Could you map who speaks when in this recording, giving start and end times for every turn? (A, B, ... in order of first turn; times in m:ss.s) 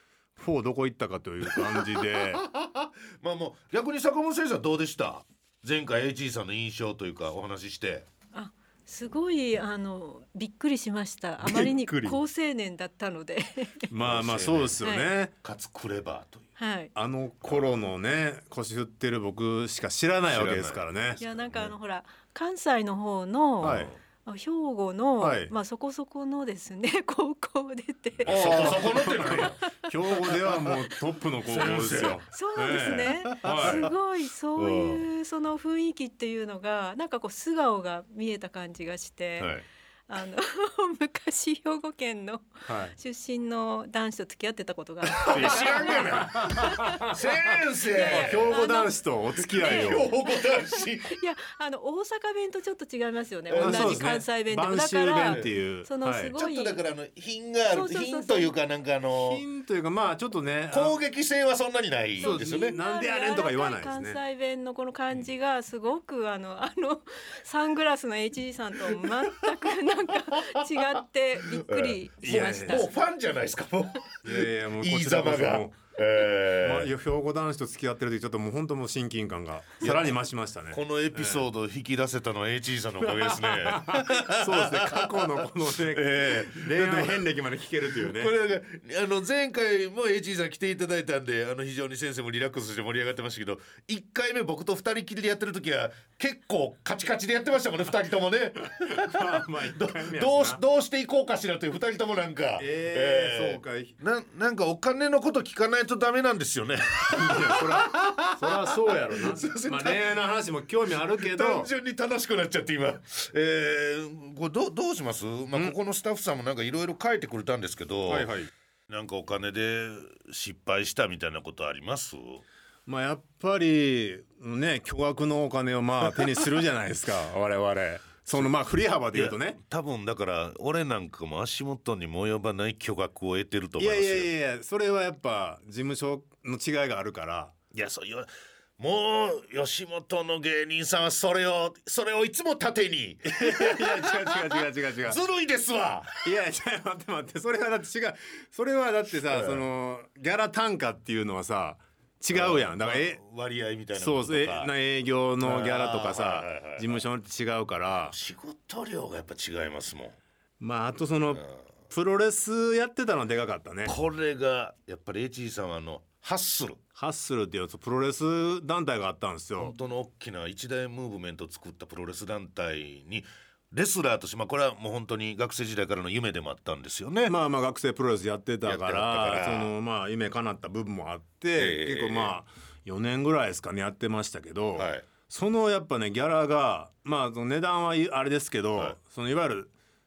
0:00.4-0:02.4 A
0:01.4-0:08.1 B
0:08.3-0:13.9 C
0:11.4-0:12.2 A
0:13.9-0:15.3 A
0:14.0-0:14.8 B
0:14.8-0:15.1 C
0:15.4-0:16.5 B
0:16.6-0:16.9 C
0:16.9-0:21.2 A
0:20.3-0:21.7 B
0:21.2-0:29.9 C
0:23.6-0:23.9 B
0:23.6-0:23.9 A
0:25.2-0:25.5 A
0:28.2-0:29.6 B
0:28.2-0:33.9 A
0:30.3-0:30.6 B
0:31.5-0:32.2 B
0:32.0-0:47.1 C
0:33.2-0:33.9 B
0:34.6-0:35.0 B
0:39.4-0:39.6 B
0:42.7-0:42.9 A
0:45.2-0:48.6 B
0:45.3-0:47.2 A
0:47.8-0:56.8 C
0:48.0-0:50.1 A
0:49.5-0:51.1 B
0:53.5-0:54.2 B
0:53.6-0:56.3 A
0:55.2-0:55.5 B
0:56.3-0:59.4 B
0:57.7-0:58.5 C
0:59.2-1:01.0 A
1:00.7-1:02.8 B
1:02.2-1:12.9 C
1:02.2-1:04.2 A
1:09.0-1:09.5 B
1:10.3-1:16.9 B
1:12.2-1:12.8 A
1:14.2-1:15.8 A
1:16.6-1:21.4 A
1:19.8-1:20.1 B
1:20.7-1:27.3 B
1:23.1-1:28.3 A
1:27.9-1:50.2 B
1:38.8-1:40.6 A
1:42.6-1:43.9 A
1:47.1-1:51.7 A
1:51.1-1:58.3 B
1:58.1-1:58.5 A
1:58.9-2:02.4 B
2:02.8-2:09.6 A
2:09.1-2:14.3 B
2:13.8-2:17.6 A
2:17.7-2:26.3 B
2:23.2-2:25.2 A
2:26.2-2:33.2 A
2:29.3-2:29.6 B
2:32.3-2:34.7 B
2:34.0-2:38.1 A
2:35.4-2:37.0 B
2:38.1-2:40.2 B
2:40.6-2:43.9 A
2:43.8-2:46.8 B
2:47.0-2:49.7 A
2:49.6-2:57.3 B
2:57.2-3:09.7 A
2:58.6-2:59.7 B
3:01.6-3:02.3 B
3:04.7-3:05.0 B